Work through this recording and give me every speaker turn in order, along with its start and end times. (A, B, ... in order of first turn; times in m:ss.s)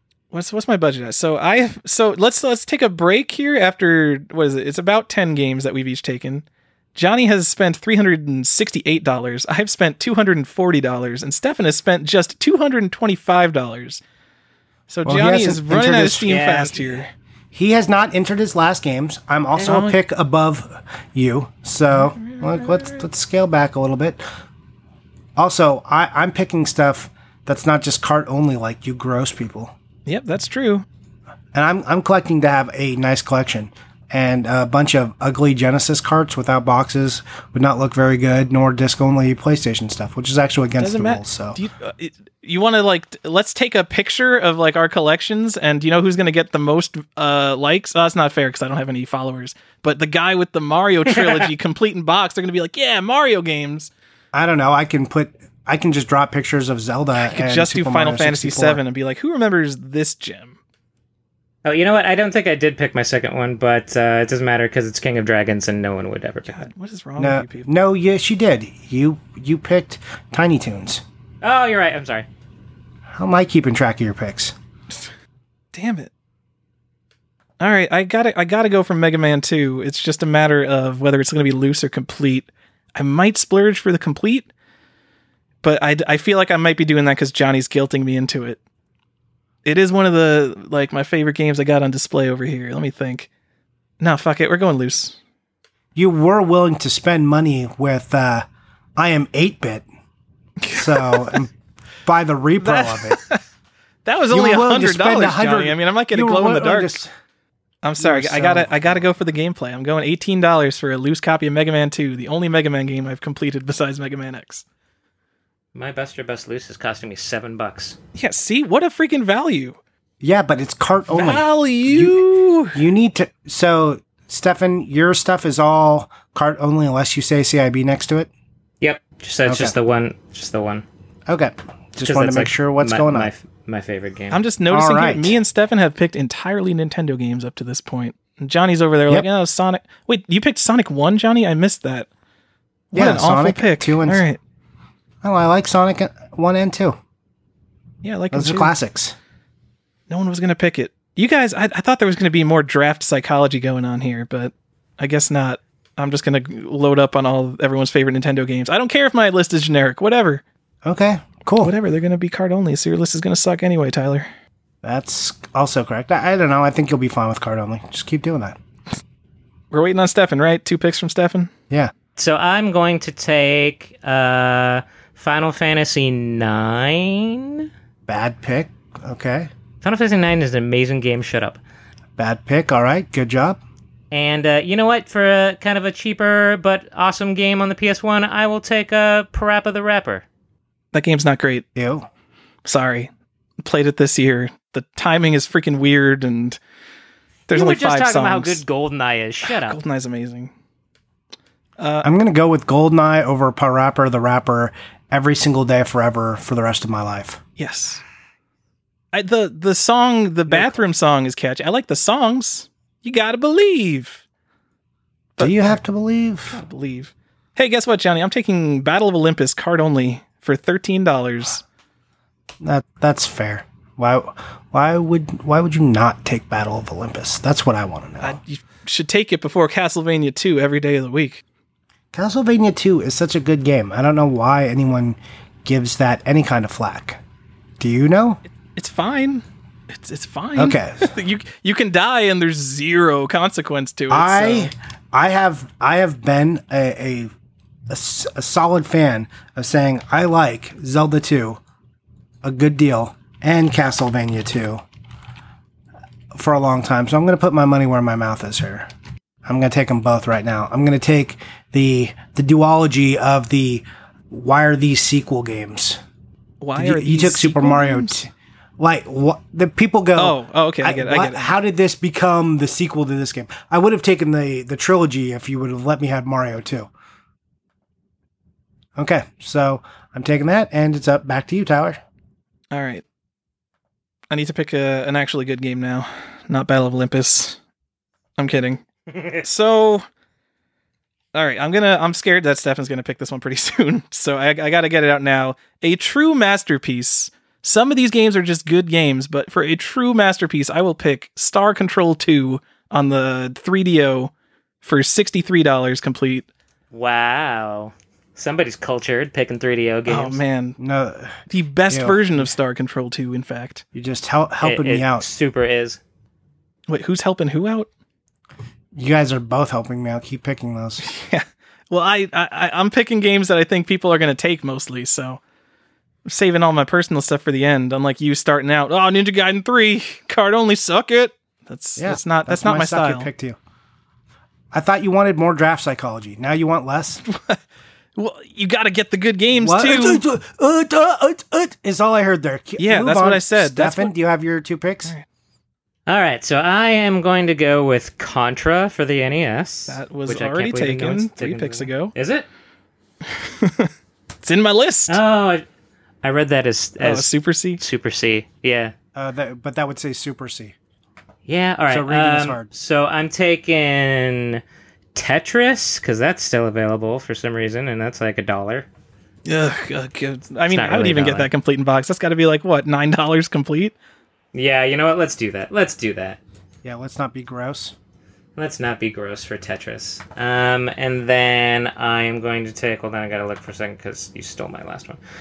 0:00.3-0:14.0 A
0:14.9-0:17.1 A
0:15.1-0:16.4 B
0:16.3-0:17.0 C
0:17.5-0:24.2 B
0:19.6-0:20.0 A
0:21.9-0:23.0 A
0:25.4-0:29.7 B
0:30.1-0:30.9 A
0:31.5-0:41.6 B
0:40.8-0:53.9 A
0:54.3-0:58.8 B
0:57.2-1:00.6 A
1:01.6-1:06.7 C
1:06.5-1:07.7 A
1:07.2-1:11.0 B
1:11.4-1:12.3 C
1:13.1-1:14.6 B
1:15.7-1:16.1 A
1:17.6-1:24.5 A
1:25.6-1:28.6 A
1:29.6-1:33.3 A
1:34.0-1:35.2 A
1:36.0-1:38.5 B
1:39.0-1:39.9 B
1:40.6-1:41.4 A
1:40.7-1:41.5 B
1:42.0-1:43.2 B
1:42.6-1:43.4 A
1:44.0-1:47.0 A
1:44.3-1:47.1 B
1:47.8-1:54.6 A
1:48.0-1:49.0 B
1:55.8-1:58.0 C
1:58.2-1:59.8 A
2:00.2-2:08.3 B
2:01.1-2:02.8 A
2:08.8-2:10.8 C
2:09.5-2:09.7 B
2:11.3-2:13.3 B
2:12.0-2:14.4 C
2:14.3-2:22.1 A
2:14.7-2:15.4 B
2:22.9-2:24.4 A
2:22.9-2:24.2 B
2:25.2-2:27.0 B
2:28.0-2:28.7 A
2:28.3-2:29.2 B
2:30.1-2:40.4 A
2:40.8-2:41.7 B
2:41.6-2:44.3 A
2:44.8-2:48.6 B
2:49.7-2:51.5 A
2:52.2-2:57.7 C
2:58.1-2:59.5 B
2:59.8-3:01.6 C
3:02.2-3:03.6 B
3:04.1-3:10.2 C
3:10.9-3:11.7 A
3:11.8-3:12.1 B
3:12.6-3:13.1 A
3:13.6-3:16.6 A
3:17.5-3:18.6 A
3:17.5-3:19.8 C
3:19.4-3:20.5 A
3:21.8-3:22.1 A
3:22.0-3:27.4 B
3:27.6-3:28.0 A
3:29.1-3:34.2 A
3:30.5-3:30.8 B
3:35.4-3:35.8 A
3:35.4-3:36.6 B
3:36.5-3:41.6 A
3:42.6-3:48.4 B
3:48.2-3:51.4 A
3:52.1-3:57.2 B
3:57.8-3:58.4 B
3:58.6-4:04.7 A
4:00.6-4:01.1 B
4:04.1-4:07.3 B
4:07.9-4:11.6 B
4:12.4-4:14.8 B
4:16.3-4:18.9 B
4:19.4-4:26.0 B
4:26.6-4:28.2 A
4:26.8-4:36.9 B
4:30.2-4:31.6 A
4:39.0-4:42.0 B
4:42.7-4:43.0 A
4:44.3-4:47.6 A
4:48.4-4:48.8 A
4:49.1-4:49.4 C
4:49.4-4:50.0 A
4:51.4-5:04.3 A
5:04.8-5:06.5 A
5:06.9-5:10.4 C
5:10.1-5:10.8 A
5:10.8-5:12.4 B
5:11.5-5:13.8 A
5:13.9-5:15.3 B
5:14.6-5:16.0 C
5:16.9-5:17.9 A
5:19.0-5:21.0 B
5:21.0-5:25.4 A
5:26.3-5:33.3 A
5:32.0-5:33.6 B
5:34.7-5:37.2 B
5:37.3-5:37.6 A
5:38.2-5:40.2 A
5:39.6-5:45.1 B
5:42.8-5:44.1 A
5:46.1-5:52.5 C
5:49.9-5:52.1 A
5:53.2-5:53.9 A
5:54.4-5:55.2 A
5:55.1-5:55.6 C
5:56.2-5:58.9 C
5:57.0-5:57.8 A
5:59.2-6:00.8 B
6:01.5-6:04.6 C
6:01.9-6:02.7 B
6:05.2-6:08.9 C
6:09.5-6:14.0 A
6:10.7-6:11.5 C
6:14.5-6:16.4 C
6:16.8-6:18.0 B
6:18.6-6:25.2 C